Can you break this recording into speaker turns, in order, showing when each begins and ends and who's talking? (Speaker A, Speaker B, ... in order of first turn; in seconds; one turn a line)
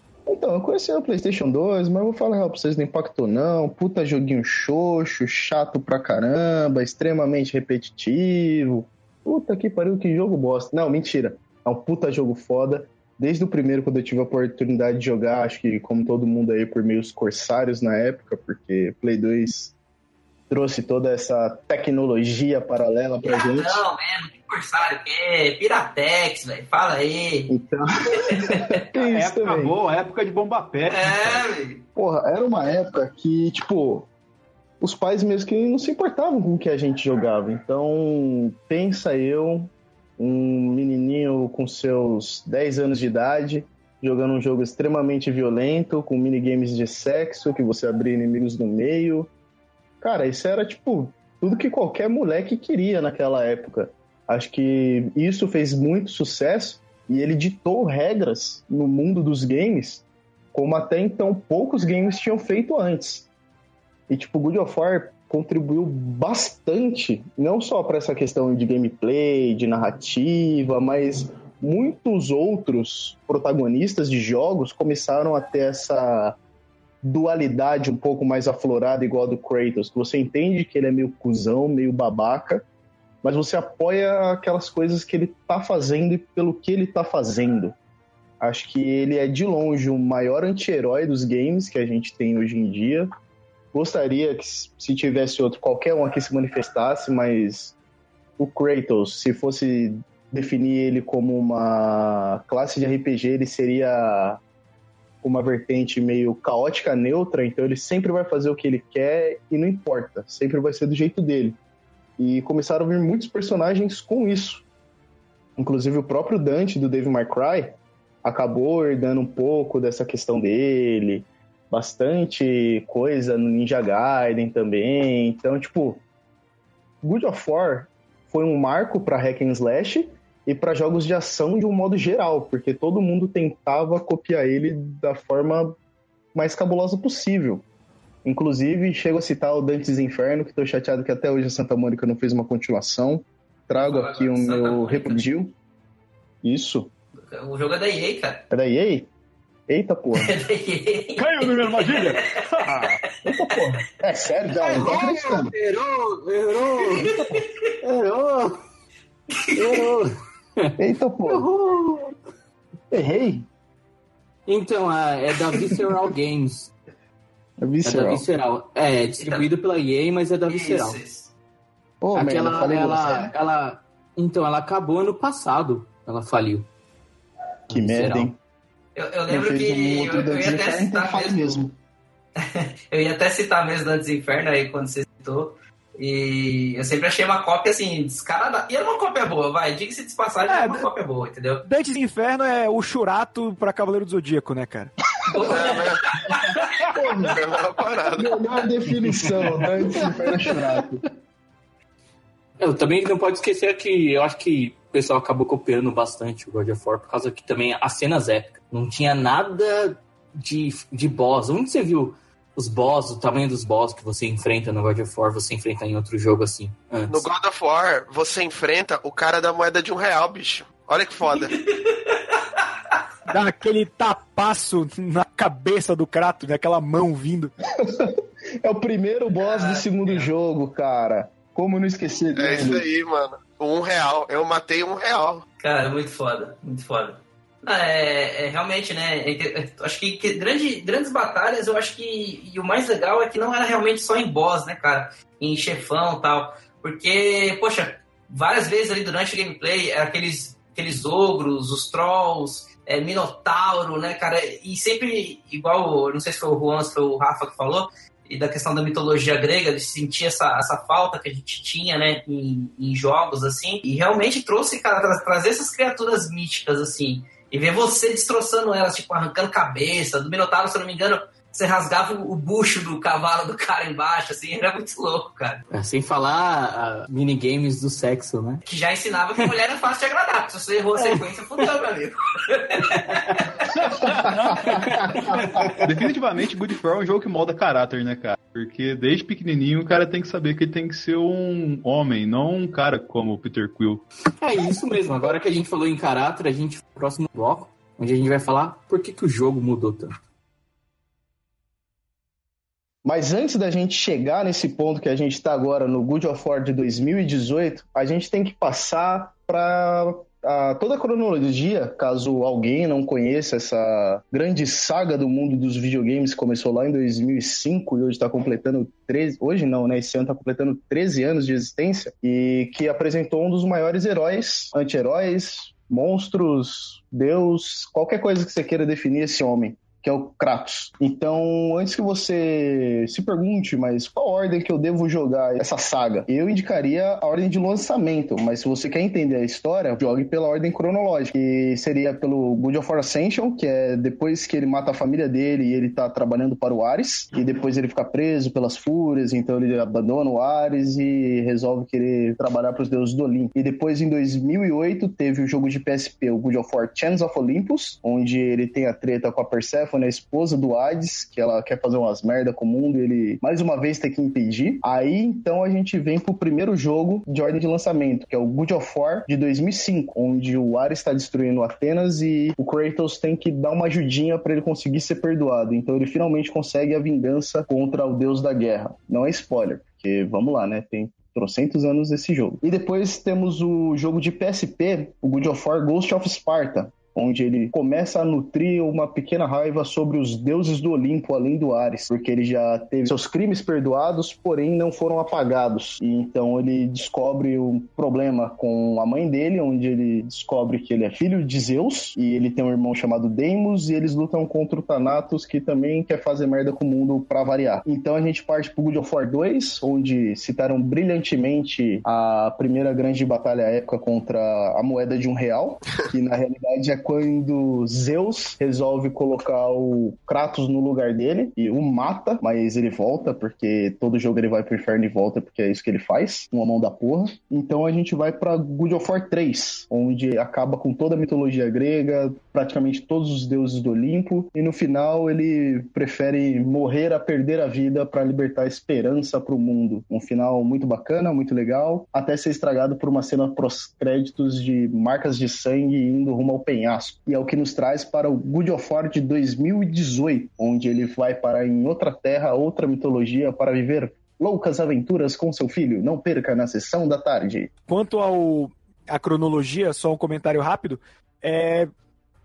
Speaker A: 0.2-19.7
Speaker A: 20.5-23.8
Speaker B: 23.2-27.5
Speaker A: 27.5-29.7
Speaker B: 28.2-28.8
Speaker C: 29.0-31.5
Speaker B: 30.9-31.8
Speaker A: 31.9-34.1
Speaker A: 34.8-49.3
Speaker A: 50.0-63.3
Speaker A: 64.1-76.4
Speaker A: 77.0-82.6
Speaker A: 83.2-87.7
Speaker A: 88.4-93.1
Speaker A: 93.7-97.8
Speaker A: 98.4-104.4
Speaker A: 105.2-111.6
Speaker A: 112.2-114.6
Speaker A: 115.6-126.0
Speaker A: 127.0-135.8
Speaker A: 136.3-137.6
Speaker A: 138.2-145.5
Speaker B: 143.7-145.3
Speaker A: 146.4-146.9
Speaker B: 147.2-148.4
Speaker A: 148.5-149.1
Speaker A: 149.7-150.4
Speaker B: 150.1-153.6
Speaker C: 151.2-153.0
Speaker A: 153.2-155.5
Speaker B: 154.6-155.0
Speaker D: 154.7-157.3
Speaker B: 156.8-157.7
Speaker D: 157.8-158.6
Speaker B: 159.4-159.9
Speaker D: 159.5-162.1
Speaker A: 160.8-161.5
Speaker A: 162.9-163.5
Speaker D: 164.5-166.7
Speaker B: 165.3-165.8
Speaker A: 167.6-168.2
Speaker D: 167.8-171.0
Speaker B: 169.2-169.5
Speaker B: 170.4-171.3
Speaker A: 172.0-173.3
Speaker D: 172.1-176.7
Speaker A: 177.7-178.3
Speaker D: 177.7-178.3
Speaker B: 178.9-181.7
Speaker A: 179.3-181.7
Speaker B: 182.4-191.6
Speaker E: 190.4-190.9
Speaker E: 191.6-194.9
Speaker B: 195.3-196.8
Speaker F: 195.5-196.0
Speaker A: 195.5-197.3
Speaker F: 196.9-198.4
Speaker A: 198.2-201.0
Speaker D: 202.6-217.2
Speaker F: 217.1-221.5
Speaker B: 221.3-222.6
Speaker E: 223.3-227.5
Speaker A: 227.8-232.8
Speaker B: 229.4-230.3
Speaker F: 232.4-235.4
Speaker B: 235.6-275.6
Speaker D: 275.7-278.6
Speaker B: 278.6-283.6
Speaker D: 280.9-281.7
Speaker D: 282.9-283.1
Speaker C: 283.7-285.1
Speaker D: 284.6-285.9
Speaker A: 284.7-285.0
Speaker C: 285.7-294.0
Speaker D: 294.4-300.2
Speaker A: 303.0-457.7
Speaker E: 457.9-461.9